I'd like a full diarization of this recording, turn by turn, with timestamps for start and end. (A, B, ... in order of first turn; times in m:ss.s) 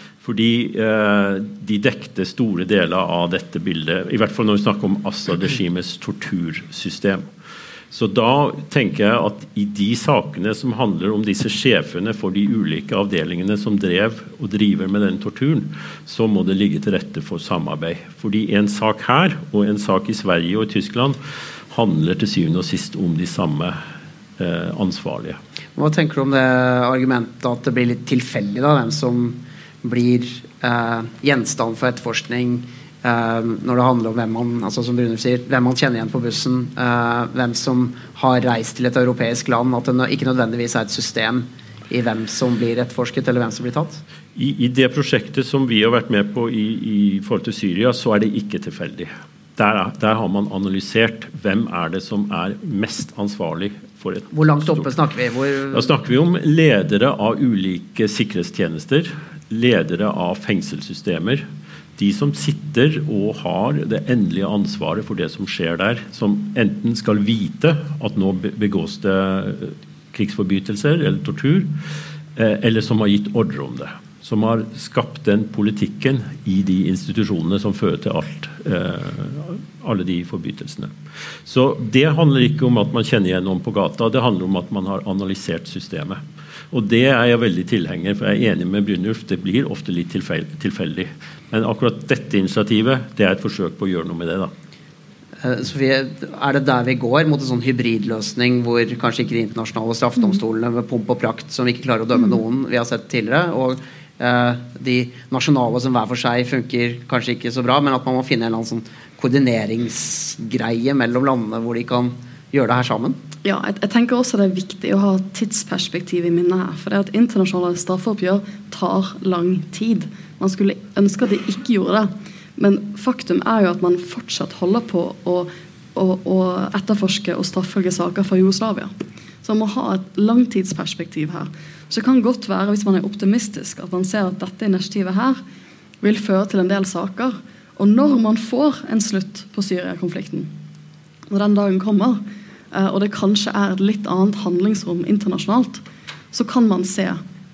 0:00.2-0:07.3 A
0:07.9-0:21.2 A
0:21.7-0:23.8 A
0:24.4-0:25.4 A
0:25.8-0:44.0 B
0:44.4-0:55.0 A
0:54.3-0:55.9 B
0:55.7-1:01.4 A
1:02.0-1:11.7 A
1:12.4-1:20.9 A
1:21.4-1:26.2 A
1:26.7-1:34.5 A
1:35.4-1:53.2 B
1:53.4-2:08.9 C
2:09.4-2:15.4 C
2:16.0-2:20.5 C
2:21.3-2:27.2 C